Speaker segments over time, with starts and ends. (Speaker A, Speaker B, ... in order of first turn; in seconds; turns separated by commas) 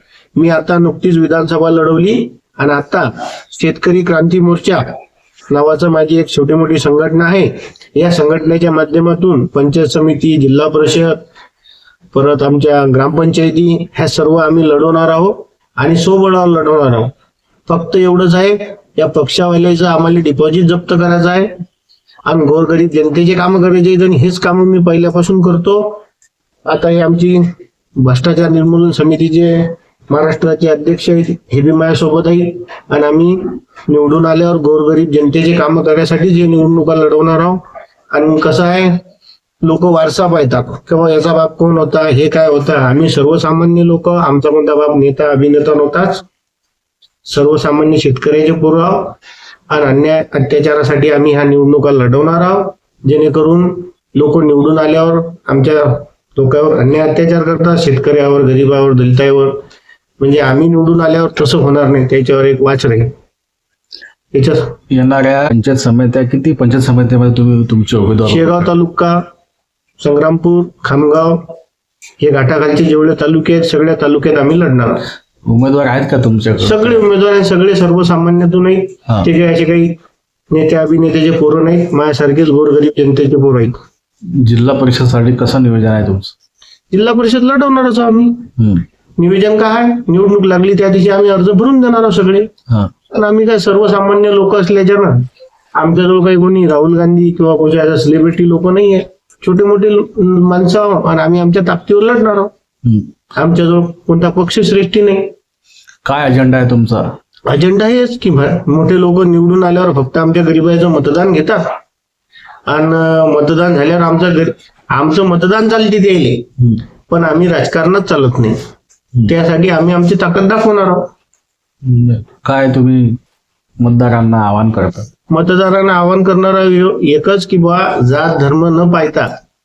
Speaker A: 0.3-4.9, Speaker A: 5.5-11.2, Speaker A: 12.1-17.1, Speaker A: 17.7-21.6, Speaker A: 22.2-26.0, Speaker A: 26.6-27.4, Speaker A: 28.0-39.0, Speaker A: 39.6-46.2, Speaker A: 47.2-49.2, Speaker A: 49.7-59.6, Speaker A: 60.2-63.1, Speaker A: 64.3-64.8, Speaker B: 64.9-68.7, Speaker A: 68.2-69.2, Speaker A: 70.0-71.5, Speaker A: 72.2-75.0, Speaker B: 75.5-77.0, Speaker A: 76.6-80.0, Speaker A: 80.5-83.8, Speaker B: 84.3-86.3, Speaker A: 86.9-88.5, Speaker B: 88.6-88.8, Speaker A: 89.2-92.5, Speaker A: 93.1-102.5, Speaker A: 103.3-105.3, Speaker B: 106.0-107.1, Speaker A: 107.5-111.7, Speaker A: 112.7-116.5, Speaker A: 117.1-118.5, Speaker A: 119.3-121.1, Speaker B: 121.8-123.2, Speaker B: 123.8-125.1, Speaker A: 125.3-129.3